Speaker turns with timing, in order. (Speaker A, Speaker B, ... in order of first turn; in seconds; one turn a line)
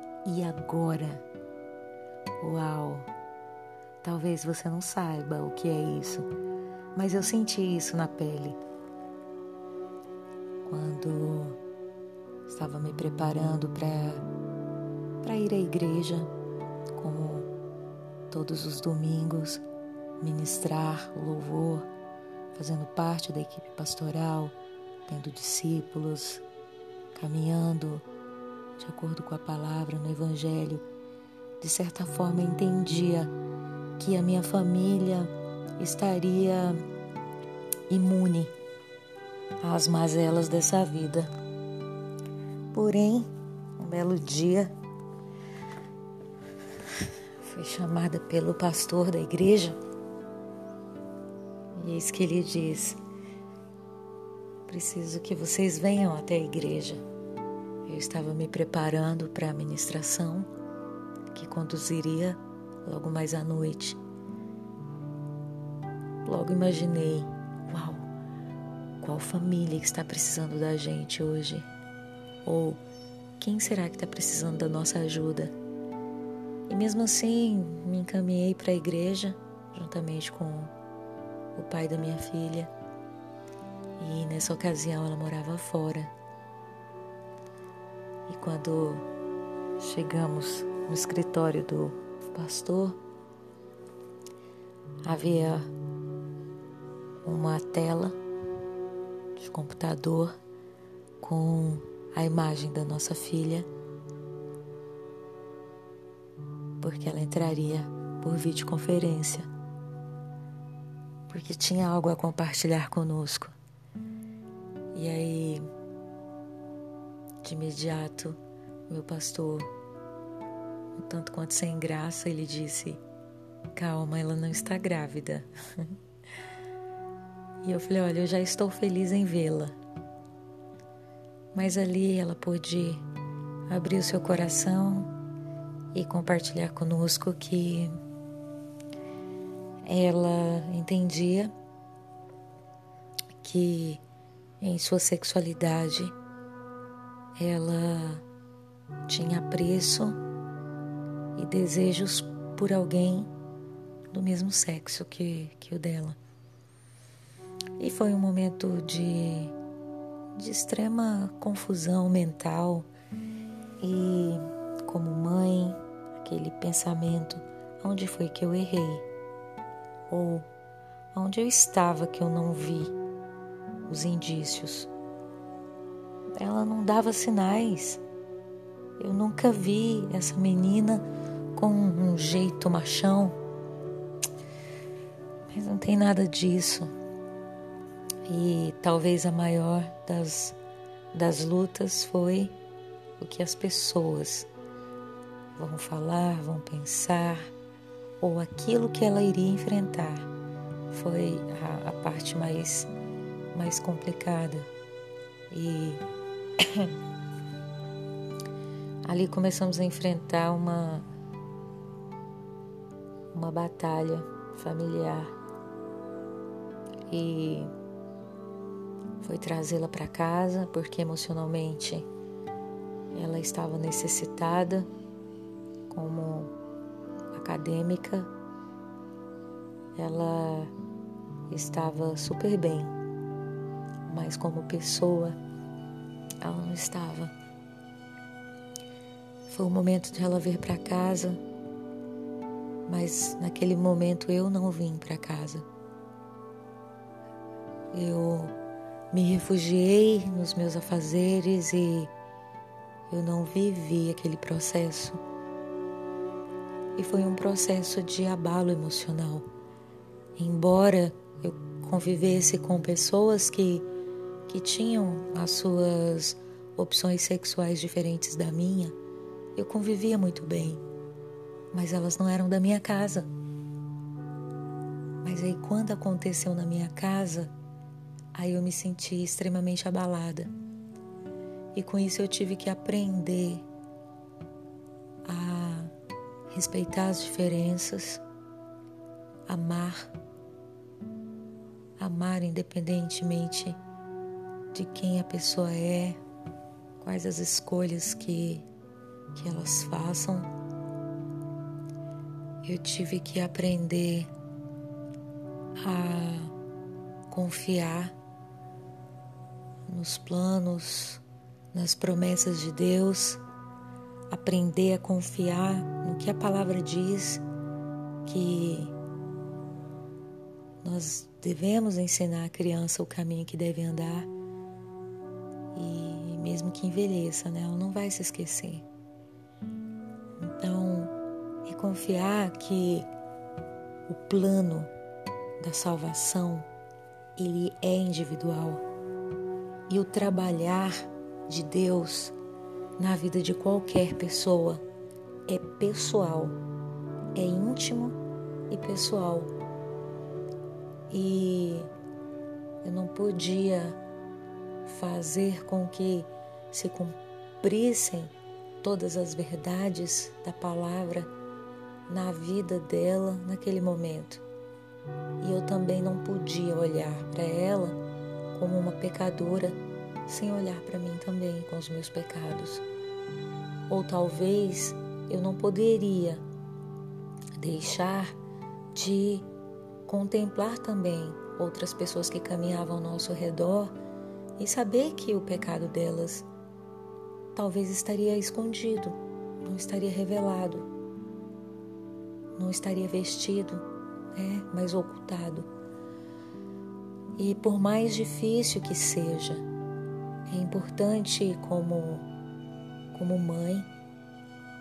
Speaker A: 0.2-1.2
Speaker A: 2.4-3.1
Speaker A: 4.0-6.3
Speaker A: 7.0-8.6
Speaker A: 10.7-11.6
Speaker A: 12.5-14.2
Speaker A: 15.2-16.3
Speaker A: 16.9-17.5
Speaker A: 18.3-19.6
Speaker A: 20.2-21.9
Speaker A: 22.6-24.6
Speaker A: 25.1-26.4
Speaker A: 27.1-28.1
Speaker A: 28.8-30.9
Speaker A: 31.6-33.3
Speaker A: 34.0-36.8
Speaker A: 37.9-38.5
Speaker A: 39.6-41.3
Speaker A: 42.7-44.7
Speaker A: 47.4-49.8
Speaker A: 51.7-53.0
Speaker A: 54.7-57.0
Speaker A: 57.9-60.5
Speaker A: 61.3-64.0
Speaker A: 66.2-68.1
Speaker A: 69.0-71.7
Speaker A: 72.5-72.8
Speaker A: 73.4-75.5
Speaker A: 76.7-80.7
Speaker A: 81.5-82.7
Speaker A: 84.0-86.1
Speaker A: 88.3-89.0
Speaker A: 89.8-93.0
Speaker A: 95.0-95.7
Speaker A: 97.2-98.2
Speaker A: 99.4-100.3
Speaker A: 101.2-103.7
Speaker A: 106.8-109.5
Speaker A: 111.3-113.6
Speaker A: 114.9-115.7
Speaker A: 117.4-118.4
Speaker A: 118.9-119.7
Speaker A: 121.0-123.0
Speaker A: 123.7-125.9
Speaker A: 127.6-129.8
Speaker A: 131.5-133.1
Speaker A: 133.7-135.1
Speaker A: 135.9-137.9
Speaker A: 139.8-141.5
Speaker A: 143.4-144.0
Speaker A: 144.6-146.2
Speaker A: 147.3-148.2
Speaker A: 149.1-150.2
Speaker A: 151.3-153.3
Speaker A: 154.1-156.2
Speaker A: 157.8-159.6
Speaker A: 160.3-162.9
Speaker A: 163.8-169.1
Speaker A: 170.1-170.5
Speaker A: 171.1-172.9
Speaker A: 173.9-174.9
Speaker A: 176.4-178.0
Speaker A: 179.0-181.1
Speaker A: 181.6-183.4
Speaker A: 185.5-186.9
Speaker A: 188.3-190.6
Speaker A: 191.1-192.6
Speaker A: 193.2-194.5
Speaker A: 195.6-197.5
Speaker A: 198.2-200.3
Speaker A: 200.9-202.9
Speaker A: 203.5-204.7
Speaker A: 205.5-206.0
Speaker A: 206.6-206.9
Speaker A: 209.1-211.1
Speaker A: 213.3-215.3
Speaker A: 217.1-217.7
Speaker A: 219.2-222.1
Speaker A: 223.1-224.9
Speaker A: 225.9-226.5
Speaker A: 227.3-228.3
Speaker A: 230.0-230.7
Speaker A: 231.5-232.9
Speaker A: 234.1-235.4
Speaker A: 236.4-237.3
Speaker A: 239.5-241.4
Speaker A: 242.9-245.7
Speaker A: 247.9-248.5
Speaker A: 249.1-252.1
Speaker A: 253.1-255.2
Speaker A: 257.0-259.5
Speaker A: 260.4-263.9
Speaker A: 264.5-268.9
Speaker A: 269.6-270.8
Speaker A: 271.7-273.3
Speaker A: 275.2-277.5
Speaker A: 278.3-280.5
Speaker A: 281.7-283.7
Speaker A: 285.2-285.9
Speaker A: 286.5-288.2
Speaker A: 289.5-290.1
Speaker A: 292.0-293.8
Speaker A: 294.7-296.2
Speaker A: 297.0-298.7
Speaker A: 299.3-300.5
Speaker A: 302.6-304.3
Speaker A: 305.8-306.5
Speaker A: 307.3-308.2
Speaker A: 309.9-313.4
Speaker A: 314.3-317.4
Speaker A: 318.2-318.9
Speaker A: 320.8-324.3
Speaker A: 325.7-328.9
Speaker A: 330.4-331.1
Speaker A: 331.6-333.1
Speaker A: 334.1-334.9
Speaker A: 335.6-336.7
Speaker A: 337.4-338.8
Speaker A: 339.9-342.4
Speaker A: 343.0-344.8
Speaker A: 345.5-346.6
Speaker A: 347.4-348.2
Speaker A: 348.7-349.5
Speaker A: 351.1-351.9
Speaker A: 352.8-354.0
Speaker A: 354.9-361.3
Speaker A: 362.1-364.4
Speaker A: 365.4-368.0
Speaker A: 368.5-372.9
Speaker A: 373.9-376.4
Speaker A: 377.6-378.4
Speaker A: 378.9-379.5
Speaker A: 380.1-384.0
Speaker A: 384.6-386.5
Speaker A: 387.6-390.9
Speaker A: 392.6-395.7
Speaker A: 397.4-399.6
Speaker A: 400.5-402.3
Speaker A: 403.1-403.9